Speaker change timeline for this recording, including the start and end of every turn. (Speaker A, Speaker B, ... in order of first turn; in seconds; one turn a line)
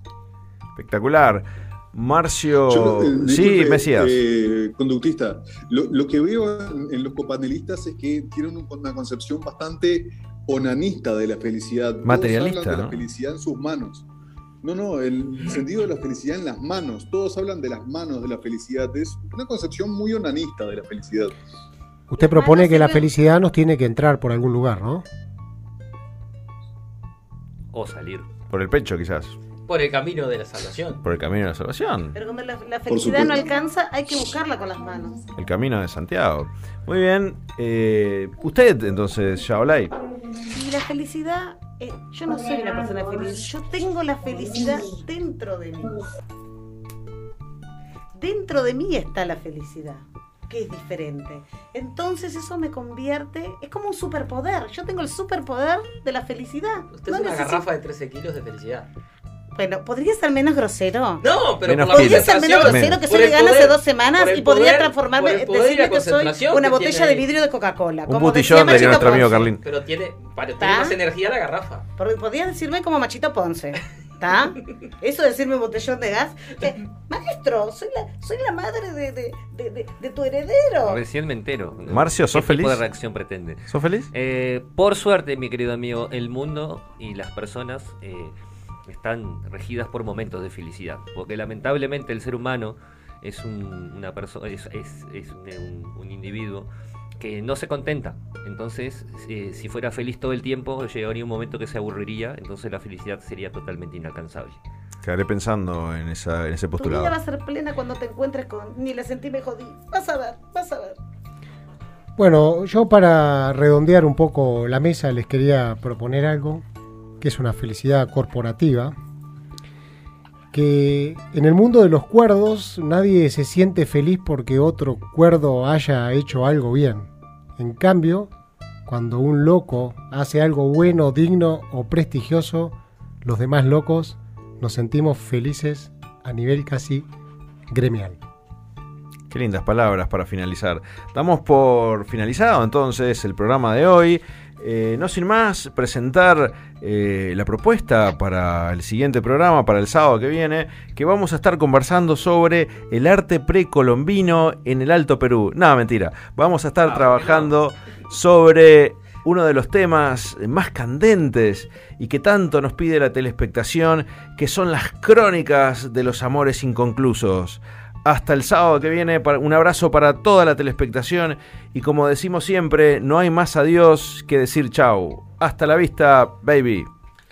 Speaker A: 0.8-4.2
Speaker B: 2.6-14.0
Speaker A: 12.0-13.0
Speaker B: 14.6-21.4
Speaker C: 22.1-25.0
Speaker D: 22.2-23.1
Speaker E: 27.7-28.3
Speaker A: 28.5-29.4
Speaker F: 29.7-31.0
Speaker A: 31.0-32.1
Speaker D: 32.1-35.2
Speaker B: 32.9-33.4
Speaker A: 35.4-39.9
Speaker D: 40.4-46.0
Speaker D: 48.1-57.6
Speaker F: 56.9-58.9
Speaker D: 59.5-61.2
Speaker F: 61.2-67.2
Speaker A: 61.6-63.0
Speaker D: 61.9-69.5
Speaker A: 68.1-69.6
Speaker F: 68.6-71.8
Speaker D: 70.6-71.0
Speaker D: 72.0-81.0
Speaker E: 80.8-88.3
Speaker A: 81.9-82.8
Speaker A: 83.7-84.1
Speaker E: 88.9-104.6
Speaker A: 105.0-107.1
Speaker D: 106.8-111.0
Speaker C: 112.2-116.6
Speaker C: 117.2-119.0
Speaker C: 120.5-128.3
Speaker C: 128.8-137.1
Speaker C: 137.7-138.2
Speaker A: 139.3-176.9
Speaker F: 156.8-157.5